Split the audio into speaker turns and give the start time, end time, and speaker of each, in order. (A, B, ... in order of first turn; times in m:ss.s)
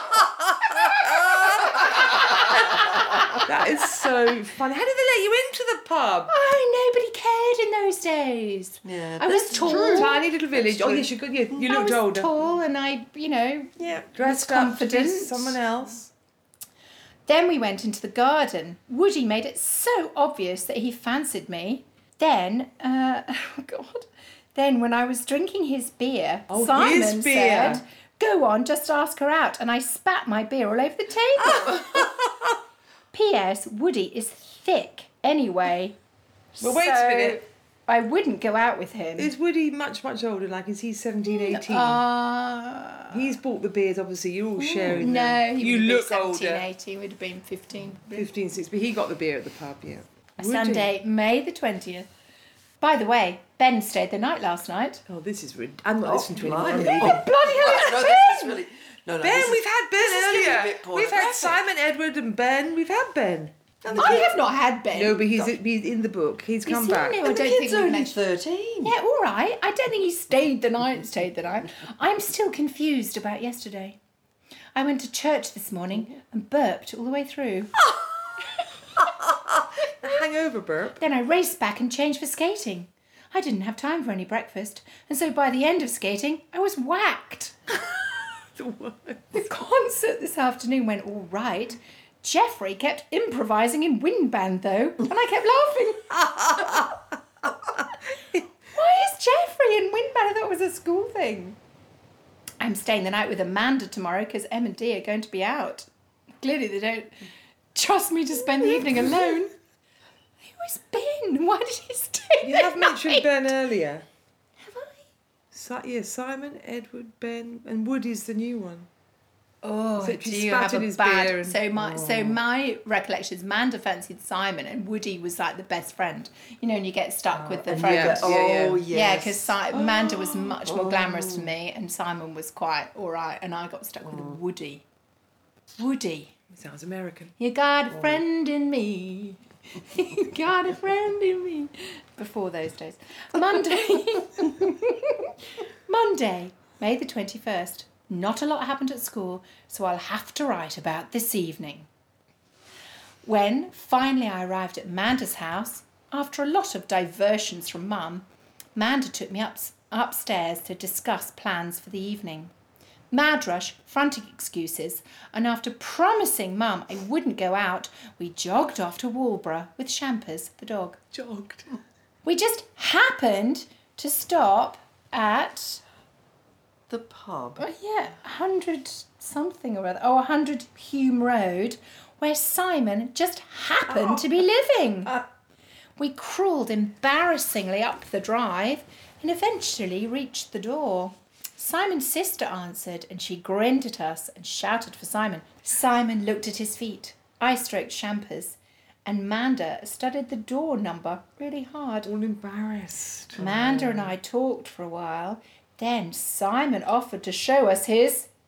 0:00.6-0:06.3 A
0:00.7-0:03.4 B
0:02.0-0:02.5 C
0:06.3-0:11.0 B
0:08.8-0:11.0 C
0:09.5-0:12.3 A
0:11.6-0:15.6 B
0:13.8-0:14.1 C
0:14.1-0:16.1 A
0:17.3-0:32.1 B
0:26.5-0:27.8 A
0:31.6-0:32.0 A
0:33.1-0:36.0 B
0:36.6-0:39.3 B
0:36.6-0:37.4 A
0:39.2-0:42.0 A
0:41.3-0:43.3 B
0:43.1-0:46.6 A
0:44.6-0:48.3 B
0:48.1-0:50.9 A
0:50.4-0:52.1 B
0:52.8-0:55.0 B
0:55.1-0:57.2 A
0:56.0-1:01.6 C
0:56.7-0:58.6 B
0:59.2-1:04.2 A
1:03.8-1:04.3 C
1:03.9-1:05.5 B
1:04.9-1:07.2 A
1:06.6-1:08.2 B
1:07.2-1:09.0 C
1:08.8-1:14.0 B
1:14.8-1:17.7 B
1:19.0-1:21.0 A
1:21.0-1:27.6 B
1:28.6-1:29.3 A
1:29.3-1:36.9 B
1:36.2-1:36.9 A
1:38.7-1:41.6 B
1:42.6-1:45.9 B
1:46.4-1:47.1 B
1:47.8-1:49.5 B
1:50.4-1:53.3 B
1:52.4-1:54.0 A
1:54.6-1:55.0 B
1:55.5-1:58.9 A
1:59.6-2:14.8 B
2:00.0-2:01.6 A
2:01.8-2:02.4 C
2:07.4-2:11.5 C
2:07.7-2:08.9 A
2:14.1-2:14.4 C
2:15.8-2:16.4 B
2:16.5-2:17.3 A
2:17.4-2:25.4 B
2:25.9-2:31.9 B
2:33.2-2:42.5 B
2:43.1-2:51.0 B
2:51.1-2:51.7 A
2:52.2-2:55.8 B
2:56.9-2:57.6 C
2:57.6-3:05.2 B
3:06.0-3:22.1 B
3:22.1-3:24.0 A
3:23.4-3:28.3 B